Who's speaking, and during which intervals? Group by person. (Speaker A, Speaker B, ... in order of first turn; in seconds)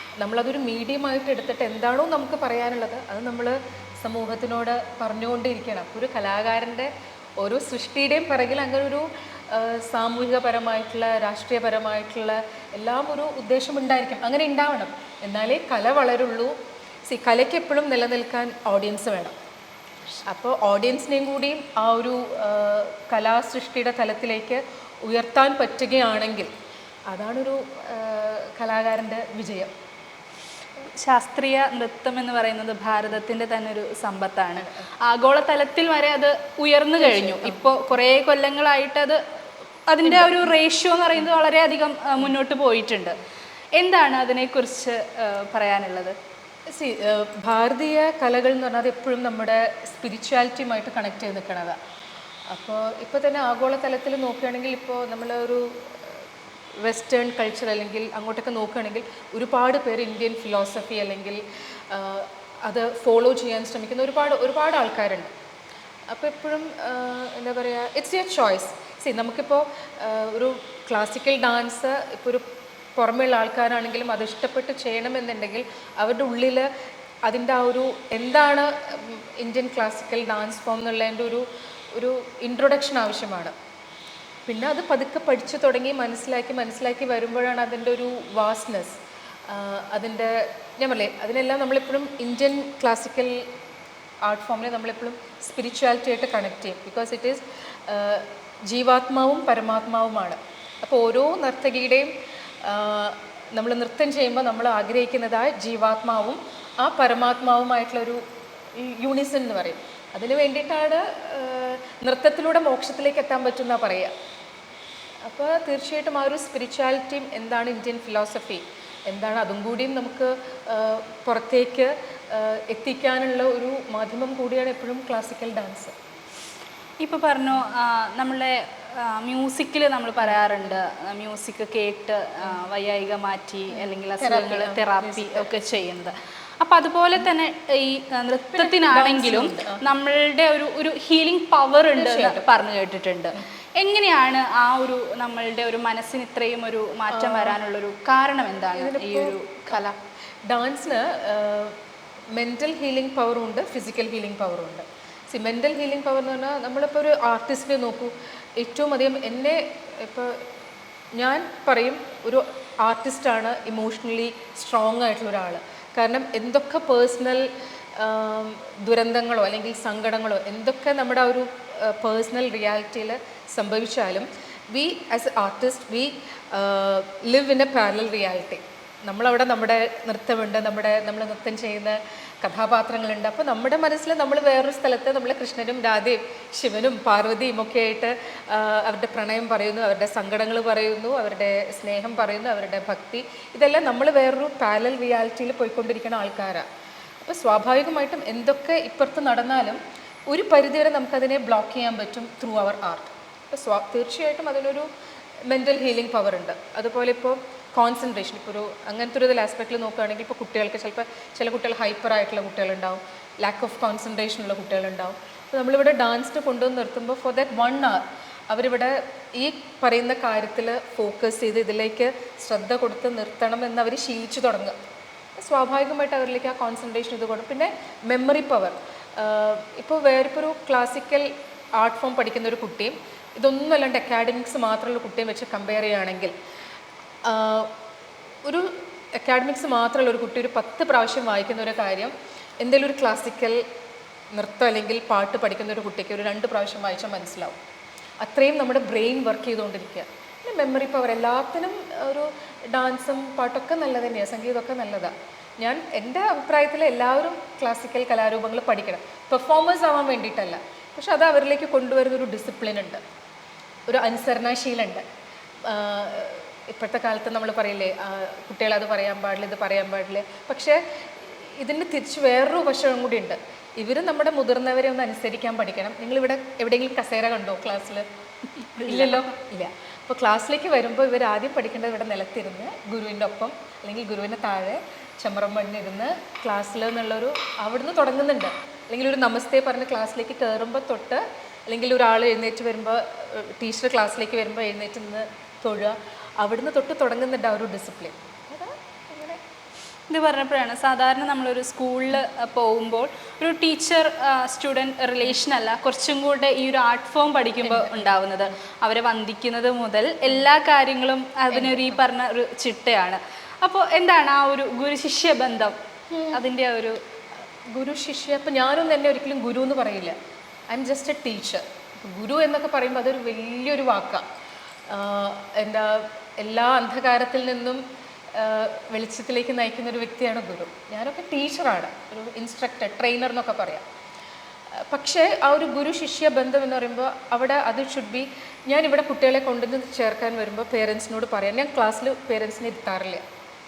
Speaker A: 0.2-19.4, 20.2-26.5, 27.1-29.7, 37.0-37.6, 40.0-40.5, 46.7-51.8, 52.5-56.2, 56.8-65.3, 66.1-76.7, 77.3-83.5, 84.5-93.5, 94.2-102.1, 102.6-108.2, 108.8-114.1, 115.2-125.9, 133.8-135.5, 138.5-139.8, 142.0-142.4, 147.1-147.6, 148.7-149.9, 150.5-151.8, 152.3-160.4, 161.2-196.7, 197.2-204.9, 205.5-224.8, 225.4-236.3, 237.2-237.7, 238.4-243.6, 244.3-247.6, 248.2-263.0, 263.9-265.0, 265.6-278.1, 278.9-299.4, 307.6-308.2, 311.5-312.0, 316.1-316.4, 317.7-320.2, 320.7-324.3, 324.9-327.8, 328.3-333.9, 334.9-343.2
Speaker B: 30.9-39.2, 39.9-43.2, 43.8-46.2, 127.0-149.9, 278.8-279.3, 300.1-315.8, 316.3-317.0